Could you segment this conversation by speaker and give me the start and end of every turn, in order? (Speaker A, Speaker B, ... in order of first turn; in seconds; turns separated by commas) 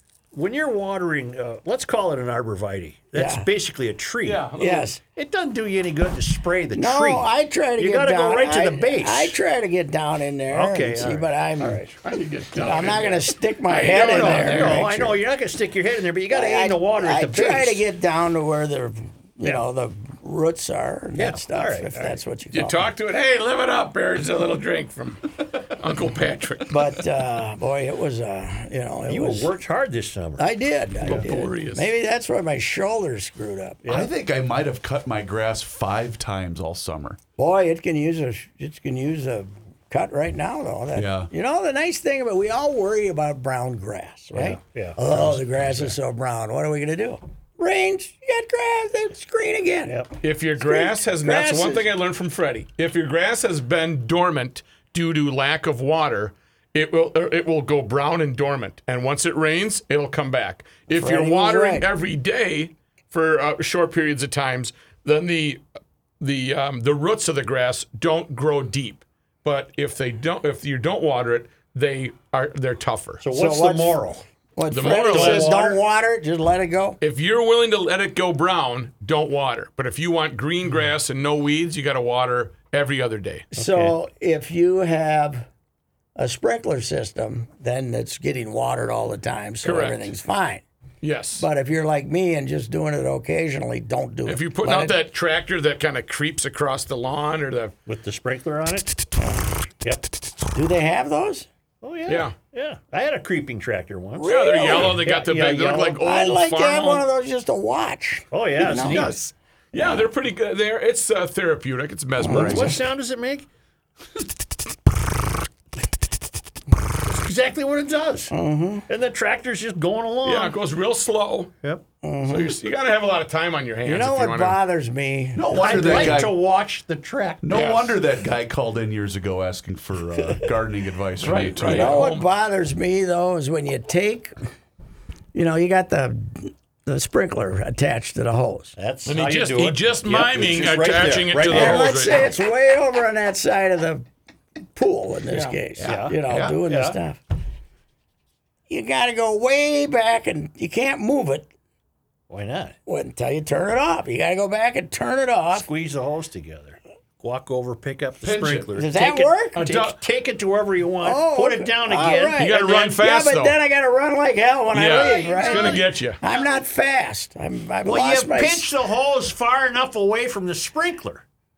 Speaker A: 0.3-4.5, Speaker B: 3.1-3.5, Speaker C: 4.2-4.9, Speaker B: 4.6-5.0, Speaker A: 5.1-9.4, Speaker B: 6.7-11.9, Speaker A: 10.5-11.9, Speaker C: 12.0-14.9, Speaker B: 12.6-15.2, Speaker A: 13.9-17.8, Speaker B: 16.3-22.9, Speaker A: 21.1-22.2, Speaker C: 22.5-26.8, Speaker B: 26.7-29.5, Speaker A: 29.1-30.5, Speaker B: 30.4-33.8, Speaker A: 31.0-31.3, Speaker C: 31.0-31.9, Speaker A: 33.8-34.1, Speaker D: 33.9-37.2, Speaker B: 37.4-50.0, Speaker D: 40.9-41.3, Speaker A: 44.3-45.4, Speaker A: 49.9-50.1, Speaker C: 50.2-65.6, Speaker B: 50.6-51.9, Speaker B: 61.0-61.9, Speaker C: 66.2-73.2, Speaker A: 73.2-74.2, Speaker B: 73.3-74.0, Speaker B: 74.5-77.0, Speaker C: 74.7-75.5, Speaker A: 74.9-75.8, Speaker C: 77.0-83.5, Speaker B: 83.5-85.5, Speaker A: 83.5-83.9, Speaker B: 86.2-90.6, Speaker C: 89.6-90.1, Speaker C: 91.0-91.5, Speaker B: 91.4-95.0, Speaker C: 94.3-97.7, Speaker A: 97.9-98.9, Speaker B: 100.5-101.5, Speaker A: 101.8-106.0, Speaker C: 102.1-102.3, Speaker B: 104.2-105.0, Speaker C: 104.2-107.0, Speaker B: 106.0-109.2, Speaker A: 108.3-109.1, Speaker C: 108.7-112.8, Speaker B: 109.7-110.0, Speaker B: 112.2-112.8, Speaker A: 112.3-113.5, Speaker A: 117.0-118.3, Speaker B: 118.3-118.8, Speaker A: 118.9-120.5, Speaker C: 120.2-121.5, Speaker B: 122.0-122.5, Speaker C: 122.3-124.6, Speaker B: 123.8-126.3, Speaker D: 125.3-126.4, Speaker A: 125.6-127.5, Speaker D: 127.4-132.1, Speaker C: 127.5-128.0, Speaker C: 131.2-132.2, Speaker B: 131.6-134.3, Speaker B: 135.3-138.8, Speaker A: 138.8-141.9, Speaker C: 139.1-142.3, Speaker B: 141.5-144.0, Speaker B: 144.8-147.2, Speaker C: 145.3-146.5, Speaker A: 145.8-146.9, Speaker B: 148.7-151.5, Speaker A: 152.3-152.8, Speaker B: 152.8-155.7, Speaker A: 155.5-162.5, Speaker D: 158.2-158.7, Speaker B: 158.7-159.6, Speaker C: 159.6-160.0, Speaker B: 161.0-168.7, Speaker C: 162.4-163.6, Speaker C: 164.7-166.2, Speaker A: 165.1-165.8, Speaker A: 167.8-171.2